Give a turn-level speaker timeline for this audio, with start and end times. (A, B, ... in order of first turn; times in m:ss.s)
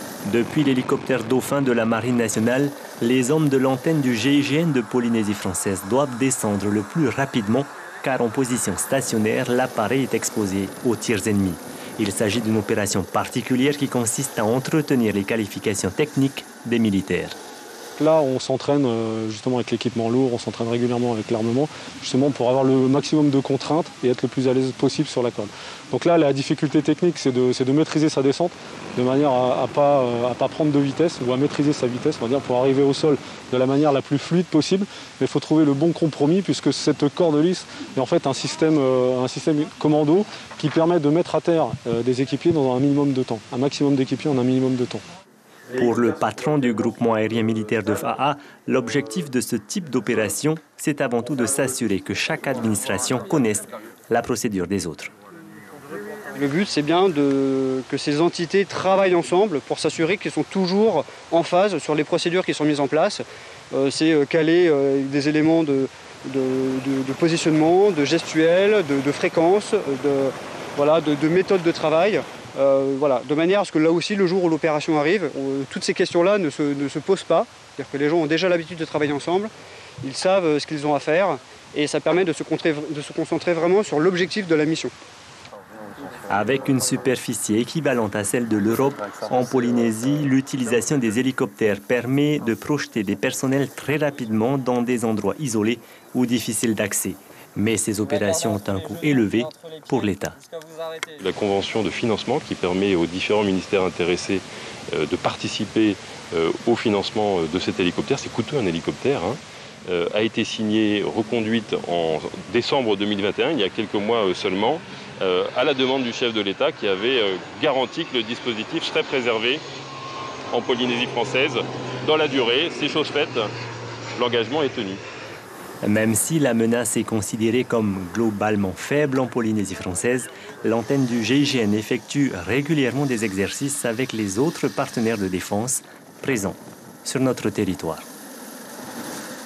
0:00.2-0:17.4 A
0:18.0-0:45.0 B
0:45.7-0:55.1 A
0:56.3-1:19.5 C
1:20.0-1:24.9 C
1:26.2-1:40.4 A
1:41.1-1:59.6 D
2:00.5-2:03.5 D
2:04.2-2:05.0 D
2:05.8-2:18.1 A